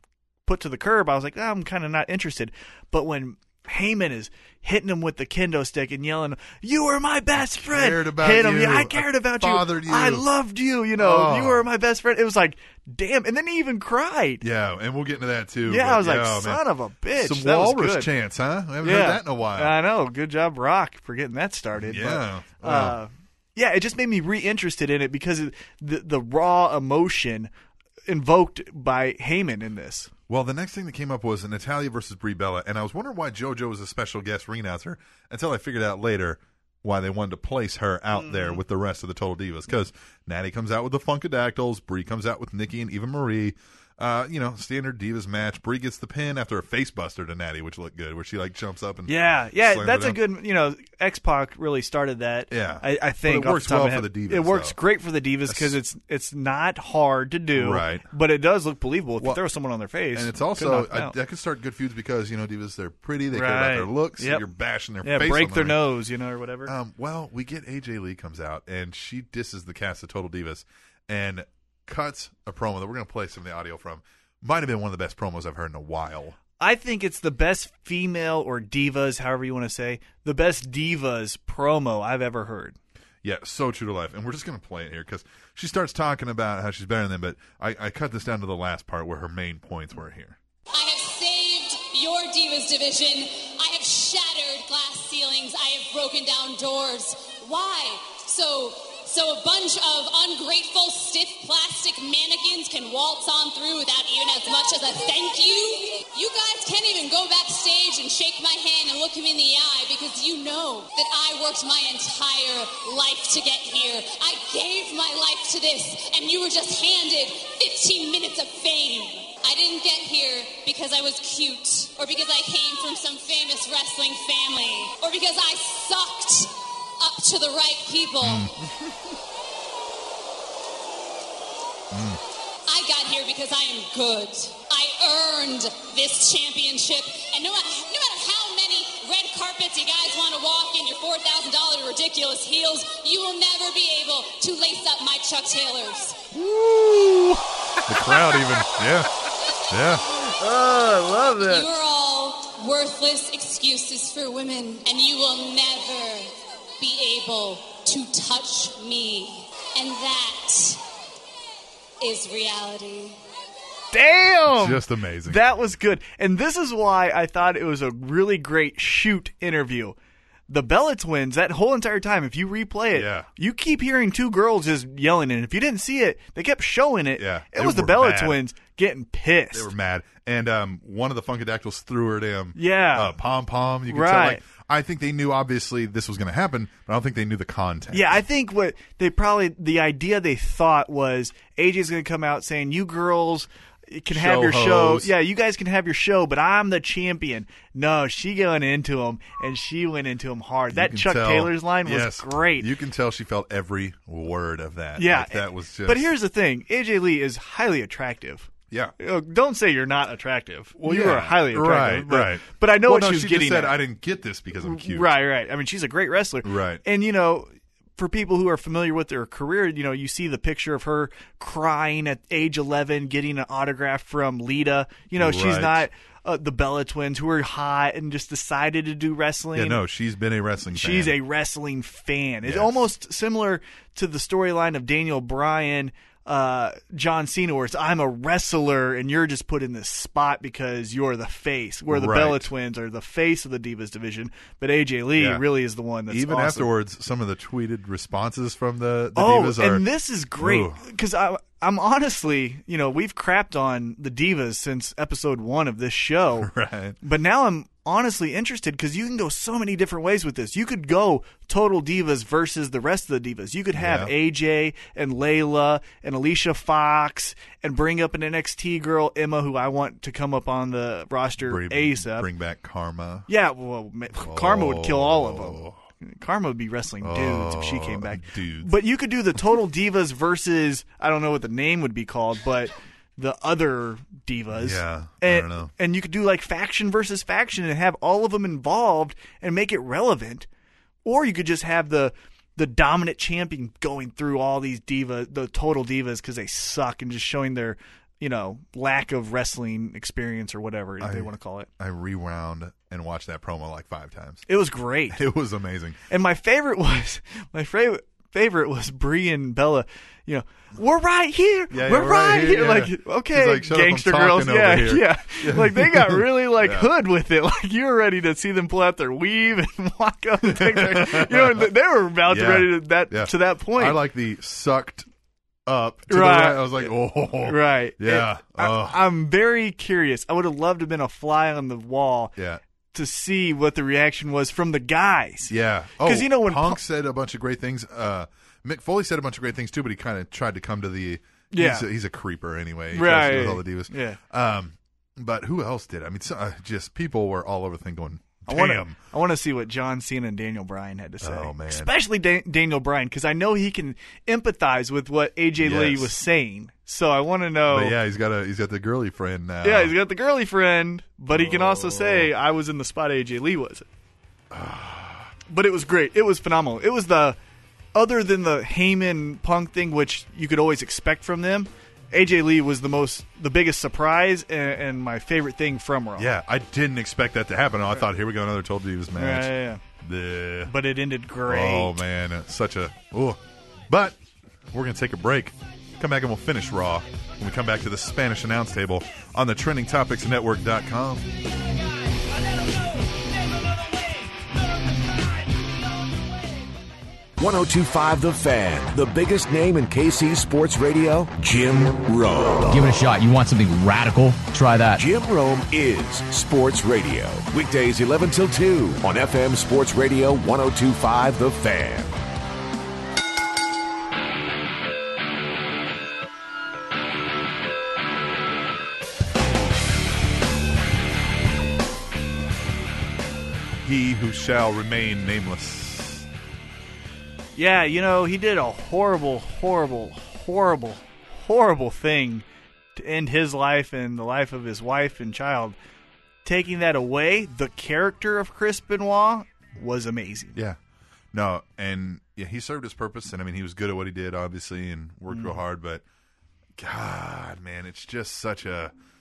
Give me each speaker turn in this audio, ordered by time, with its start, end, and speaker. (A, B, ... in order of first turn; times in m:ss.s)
0:00.5-0:14.4 A
0:07.4-0:10.3 B
0:11.0-0:11.7 B
0:14.4-0:16.6 B
0:15.6-0:18.1 A
0:17.2-0:19.8 B
0:18.8-0:27.5 A
0:21.8-0:23.0 B
0:28.1-0:30.1 A
0:30.3-0:50.2 B
0:38.1-0:38.6 A
0:49.1-1:01.2 A
0:52.5-0:54.8 B
0:55.5-0:55.8 B
0:57.5-0:58.0 B
1:00.1-1:05.8 B
1:03.3-1:04.5 A
1:05.0-1:06.7 A
1:06.7-1:16.4 B
1:16.6-1:22.8 A
1:23.2-1:30.4 B
1:30.7-2:08.5 C
2:08.2-2:09.0 B
2:11.9-2:12.2 B
2:12.7-2:26.2 C
2:26.3-2:28.8 A
2:27.9-2:29.1 B
2:29.7-2:30.0 B
2:30.1-2:31.6 A
2:31.4-2:40.8 C
2:42.0-2:43.2 C
2:43.9-2:50.0 A
2:44.5-2:45.5 B
2:50.5-2:59.7 A
2:52.9-2:53.3 B
2:57.2-2:58.4 B
2:59.5-3:08.2 B
3:02.6-3:03.2 A
3:03.9-3:04.4 A
3:07.9-3:22.7 A
3:14.1-3:15.1 B
3:20.7-3:26.1 B
3:25.0-3:33.8 A
3:30.8-3:35.1 B
3:34.6-3:49.8 A
3:36.4-3:36.8 B
3:45.1-3:45.9 B
3:49.5-3:51.2 B
3:50.7-4:06.7 A
3:52.4-3:52.8 B
4:01.9-4:02.5 B
4:05.2-4:05.4 B
4:06.1-4:09.8 B
4:09.2-4:16.5 A
4:10.4-4:10.8 B
4:16.4-4:17.0 B
4:17.0-4:32.3 A
4:23.8-4:24.1 B
4:31.4-4:33.3 B
4:33.3-4:50.5 A
4:34.2-4:35.8 B
4:37.0-4:38.7 B
4:44.5-4:45.7 B
4:51.0-5:01.7 A
5:01.0-5:04.4 B
5:04.5-5:05.2 A
5:05.1-5:06.0 B
5:06.1-5:24.0 A
5:11.7-5:16.9 B
5:20.4-5:21.7 B
5:22.3-5:25.1 B
5:25.7-5:29.0 B
5:26.1-5:26.9 A
5:27.4-5:32.3 A
5:32.4-5:32.6 B
5:32.9-5:36.8 A
5:35.5-5:49.0 B
5:41.5-5:41.9 A
5:42.9-5:44.2 A
5:48.5-5:58.0 A
5:51.2-5:51.9 B
5:55.6-5:56.2 B
5:57.7-6:00.0 B
5:59.6-6:03.9 A
6:01.3-6:02.3 B
6:04.5-6:05.3 B
6:05.5-6:07.4 A
6:08.0-6:16.3 A
6:16.2-6:20.7 B
6:19.2-6:19.8 A
6:20.7-6:22.0 A
6:21.5-6:24.2 B
6:24.7-6:31.2 B
6:37.4-6:43.0 D
6:42.7-6:45.0 E
6:45.0-6:52.2 D
7:03.8-7:06.3 B
7:07.6-7:15.8 A
7:16.4-7:20.6 A
7:21.3-7:26.0 B
7:25.3-7:25.6 A
7:26.8-7:28.9 B